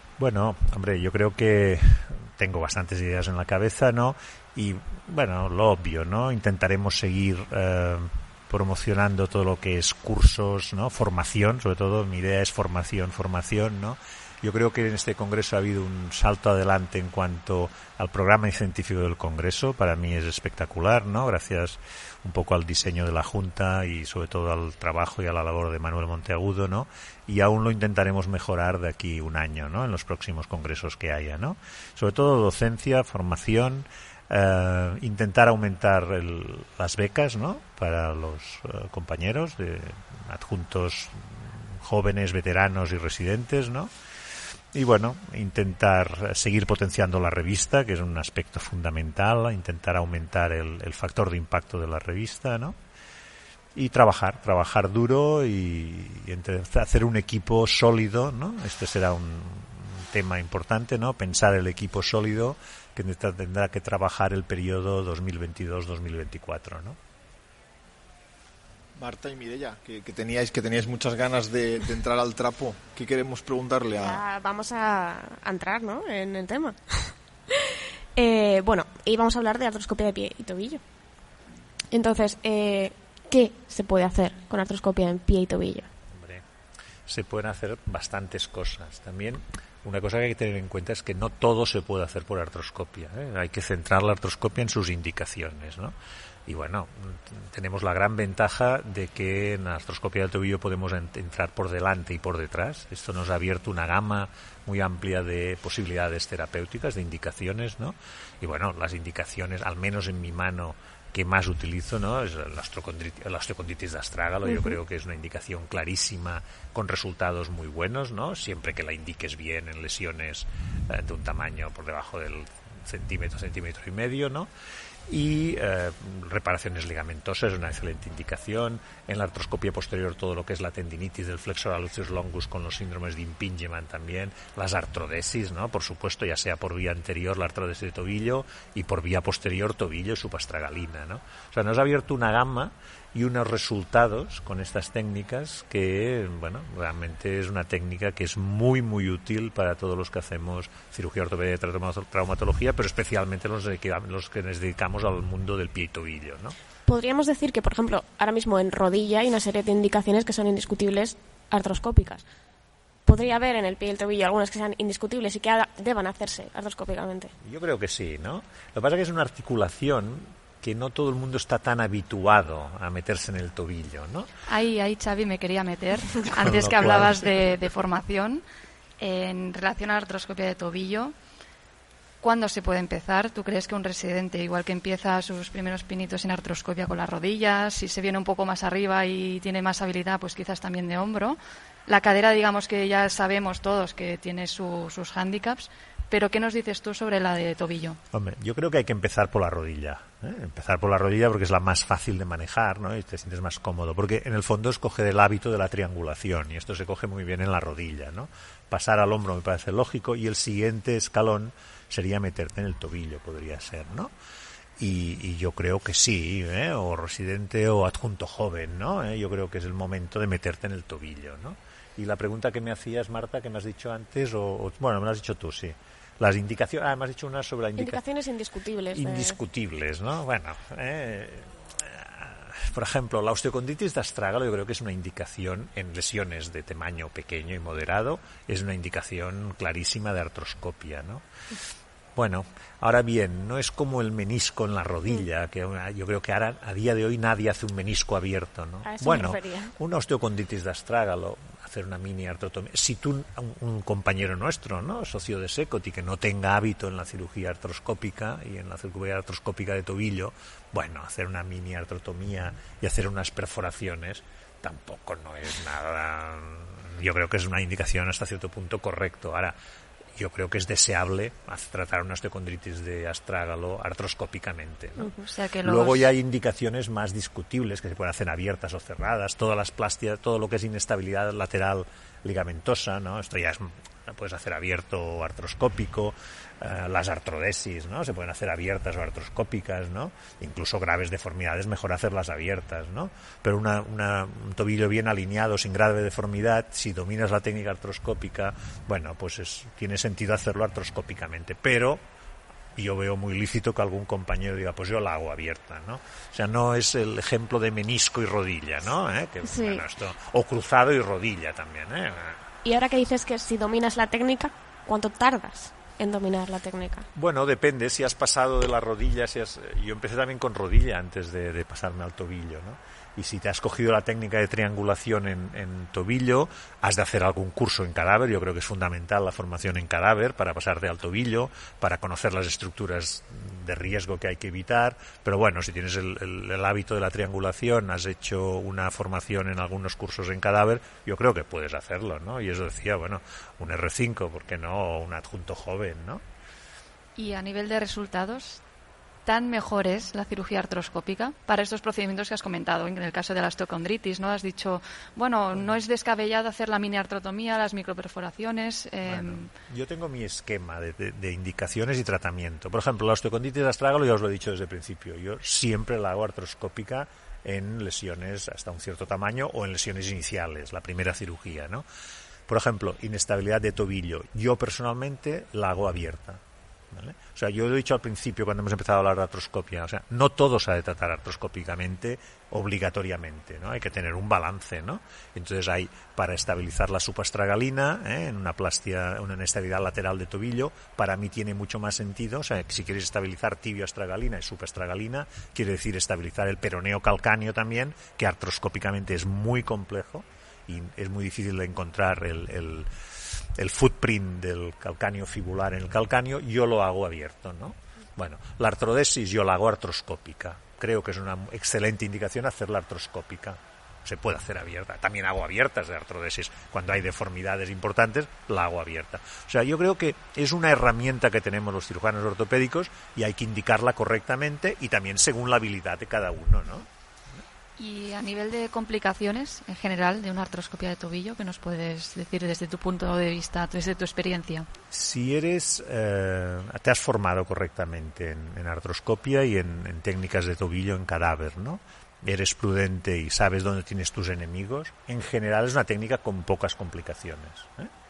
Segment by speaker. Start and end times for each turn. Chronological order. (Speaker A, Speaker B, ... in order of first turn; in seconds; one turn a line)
Speaker A: 0.2-43.9
Speaker A: 44.7-52.7
Speaker A: 53.7-67.0
Speaker B: 69.0-74.2
Speaker C: 73.9-80.8
Speaker C: 81.9-85.9
Speaker A: 86.1-86.4
Speaker A: 87.1-95.9
Speaker A: 96.5-124.5
Speaker C: 114.5-114.7
Speaker A: 125.1-156.6
Speaker C: 156.9-162.2
Speaker C: 163.1-167.3
Speaker A: 167.4-174.3
Speaker D: 174.5-178.4
Speaker A: 176.4-177.4
Speaker D: 179.0-181.1
Speaker D: 182.2-198.0
Speaker A: 198.1-214.1
Speaker A: 214.8-228.0
Speaker C: 227.8-229.4
Speaker A: 228.9-241.2
Speaker A: 242.2-269.5
Speaker C: 248.8-249.7
Speaker A: 270.2-302.0
Speaker C: 275.0-275.2
Speaker D: 275.3-276.1
Speaker A: 302.7-312.4
Speaker C: 309.4-309.8
Speaker C: 312.6-317.1
Speaker A: 317.1-346.2
Speaker D: 347.2-348.6
Speaker D: 349.2-359.5
Speaker A: 355.5-355.8
Speaker A: 359.0-371.8
Speaker A: 372.5-402.9
Speaker A: 403.6-427.4
Speaker D: 427.8-434.7
Speaker A: 434.9-447.9